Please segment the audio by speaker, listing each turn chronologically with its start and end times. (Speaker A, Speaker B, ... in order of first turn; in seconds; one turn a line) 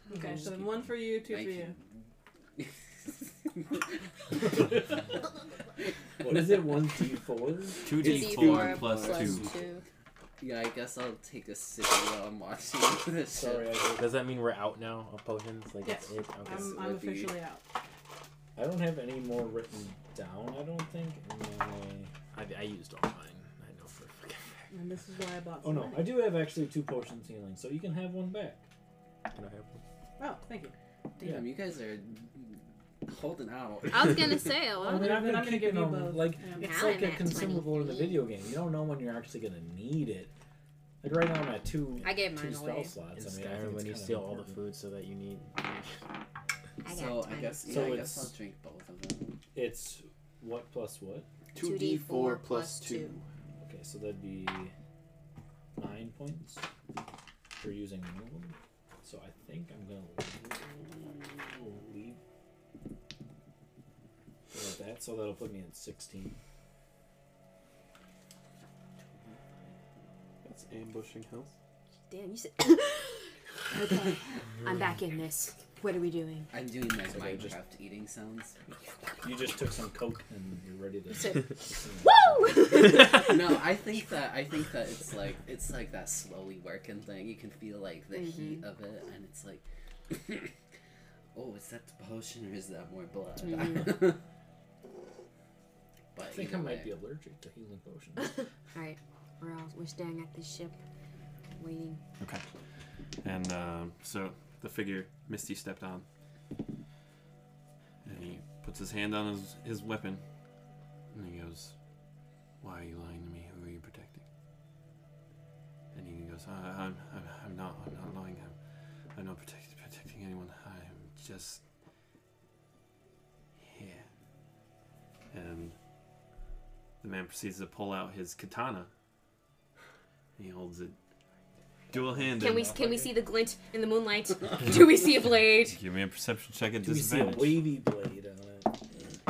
Speaker A: 0.1-1.8
Speaker B: 0.1-0.4
Speaker C: 1.1-2.0
Speaker C: 2.6-3.9
Speaker D: 6.2-9.6
Speaker C: 6.2-6.7
Speaker E: 7.8-9.5
Speaker B: 7.9-9.8
Speaker C: 8.4-9.0
Speaker C: 10.4-13.8
Speaker D: 13.3-14.2
Speaker F: 14.0-16.8
Speaker A: 15.8-17.6
Speaker C: 16.5-17.4
Speaker D: 18.6-22.1
Speaker F: 22.3-24.6
Speaker A: 24.7-26.3
Speaker D: 25.6-28.6
Speaker F: 29.3-29.8
Speaker A: 30.2-30.8
Speaker C: 31.2-34.5
Speaker B: 33.9-35.2
Speaker A: 34.8-37.0
Speaker D: 34.8-40.3
Speaker B: 36.6-38.3
Speaker D: 41.0-44.6
Speaker B: 42.0-43.0
Speaker F: 43.1-46.0
Speaker B: 46.8-48.0
Speaker C: 46.9-49.4
Speaker D: 47.7-48.3
Speaker D: 49.5-51.3
Speaker E: 51.5-53.2
Speaker B: 51.6-53.2
Speaker D: 53.6-54.7
Speaker D: 55.8-56.7
Speaker D: 57.6-62.2
Speaker D: 64.5-66.4
Speaker C: 69.0-70.1
Speaker E: 70.4-71.5
Speaker B: 72.1-76.5
Speaker C: 76.5-78.6
Speaker D: 77.0-77.6
Speaker D: 79.2-82.8
Speaker B: 81.1-83.5
Speaker C: 83.1-90.5
Speaker B: 88.1-88.6
Speaker C: 91.3-94.2
Speaker B: 93.4-94.0
Speaker C: 96.1-97.0
Speaker D: 96.2-98.4
Speaker B: 98.2-100.8
Speaker B: 101.5-102.0
Speaker E: 102.2-102.5
Speaker E: 103.2-106.0
Speaker E: 108.0-110.2
Speaker E: 111.1-111.8
Speaker E: 112.6-114.2
Speaker E: 115.9-118.6
Speaker E: 119.1-121.6
Speaker E: 123.6-124.1
Speaker E: 125.3-125.8
Speaker E: 127.0-128.9
Speaker E: 130.4-131.0
Speaker E: 131.9-132.8
Speaker B: 132.4-135.8
Speaker E: 135.6-137.6
Speaker D: 136.8-138.9